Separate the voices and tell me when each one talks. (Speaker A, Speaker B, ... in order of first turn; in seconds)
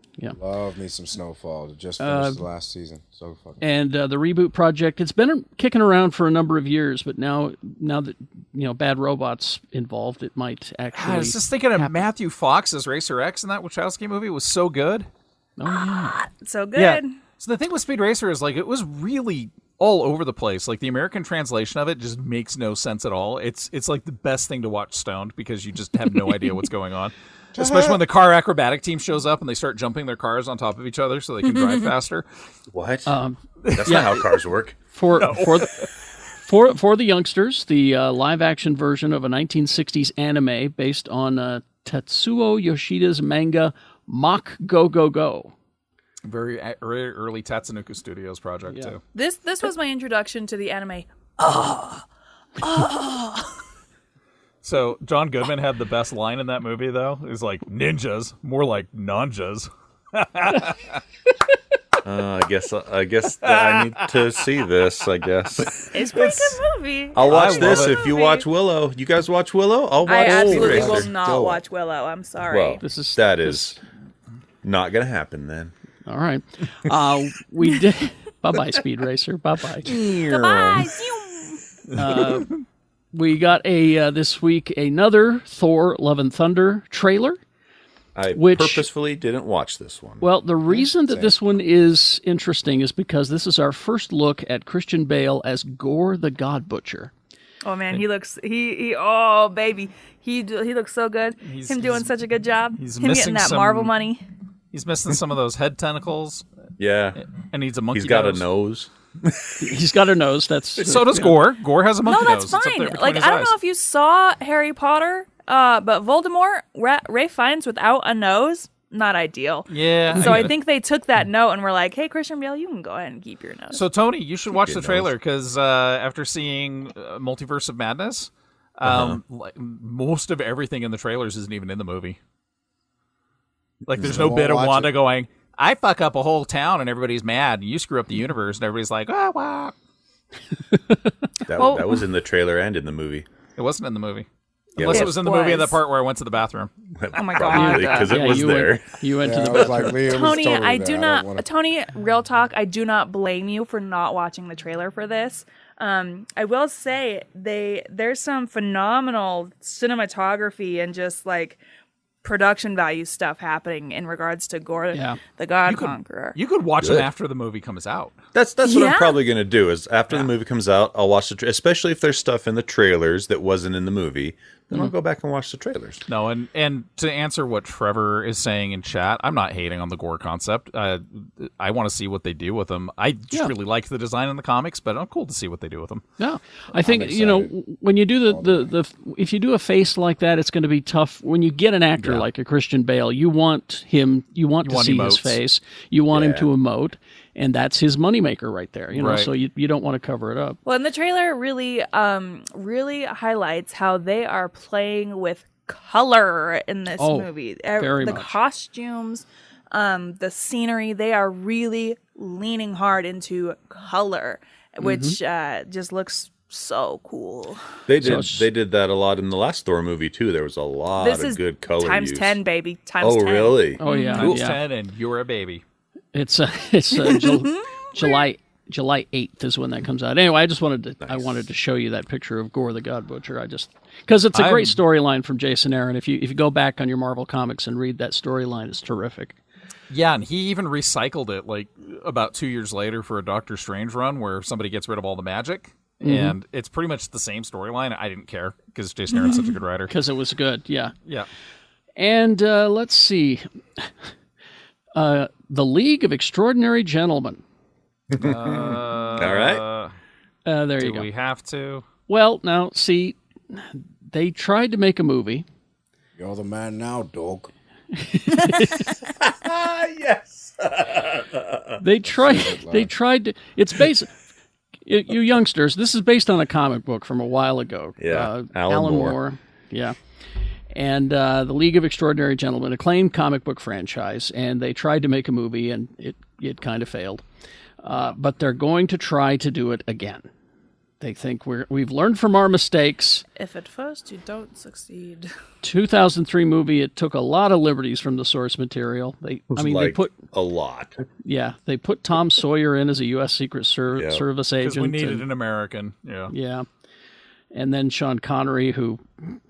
Speaker A: 0.3-3.6, 27.6-28.0, 70.2-71.6, 90.8-91.3, 134.0-134.9, 149.2-151.4, 186.8-187.5, 188.2-188.7, 266.2-267.5, 272.0-272.9
Speaker B: 2.0-2.4, 3.6-11.9, 15.6-16.2, 33.1-34.2, 34.9-35.9, 36.4-45.5, 48.7-48.9, 72.8-73.8, 76.1-80.0, 82.0-82.5, 83.1-87.4, 88.3-88.9, 90.2-97.1, 109.6-111.4, 140.7-141.1, 147.5-150.0, 164.9-165.2, 186.2-200.6, 207.0-208.4, 214.8-215.2, 218.0-218.5, 223.8-224.6, 226.1-239.3, 246.0-246.3, 249.9-250.9, 252.0-253.9, 254.9-257.4, 260.5-261.1, 262.1-265.5, 267.9-268.9, 271.8-274.1, 274.9-280.0, 280.7-287.2, 287.8-290.3, 291.0-293.2, 295.6-300.1, 301.2-305.2, 306.3-306.7, 307.5-309.4
Speaker C: 10.9-15.1, 16.8-32.2, 33.6-34.1, 35.2-35.9, 46.2-49.0, 54.6-61.0, 63.4-64.1, 66.2-66.6, 67.2-68.0, 101.4-102.1, 102.8-103.9, 104.7-106.5, 107.3-108.5, 110.8-113.5, 119.7-120.5, 123.7-132.2, 133.9-139.7, 143.6-144.3, 144.8-146.7, 165.7-168.2, 176.1-186.0, 192.0-192.3, 194.6-195.4, 198.9-199.3, 224.2-225.6, 234.3-234.8, 239.9-249.9, 258.2-259.9, 260.8-261.9, 304.6-306.3
Speaker D: 15.7-17.2, 49.1-52.0, 52.6-53.5, 65.9-68.5, 70.0-72.8, 80.2-81.6, 97.6-104.2, 112.0-123.8, 141.6-141.9, 144.9-145.8, 147.2-148.4, 150.0-161.6, 162.2-166.4, 168.6-169.2, 200.7-217.6, 221.0-224.3, 227.0-228.2, 293.4-295.3
Speaker E: 32.7-33.1, 33.8-34.8, 62.0-65.9, 67.2-71.5, 72.5-73.8, 74.6-75.7, 79.9-80.8, 88.2-90.3, 106.8-107.2, 107.9-109.5, 124.6-125.1, 128.8-129.2, 141.5-143.3, 144.8-145.2, 147.0-148.9, 149.6-149.9, 166.8-167.1, 168.3-176.0, 196.1-196.5, 217.9-222.4, 223.0-223.8, 231.0-231.3, 258.1-259.6, 268.5-271.7, 278.0-279.2, 299.5-300.9, 303.9-304.2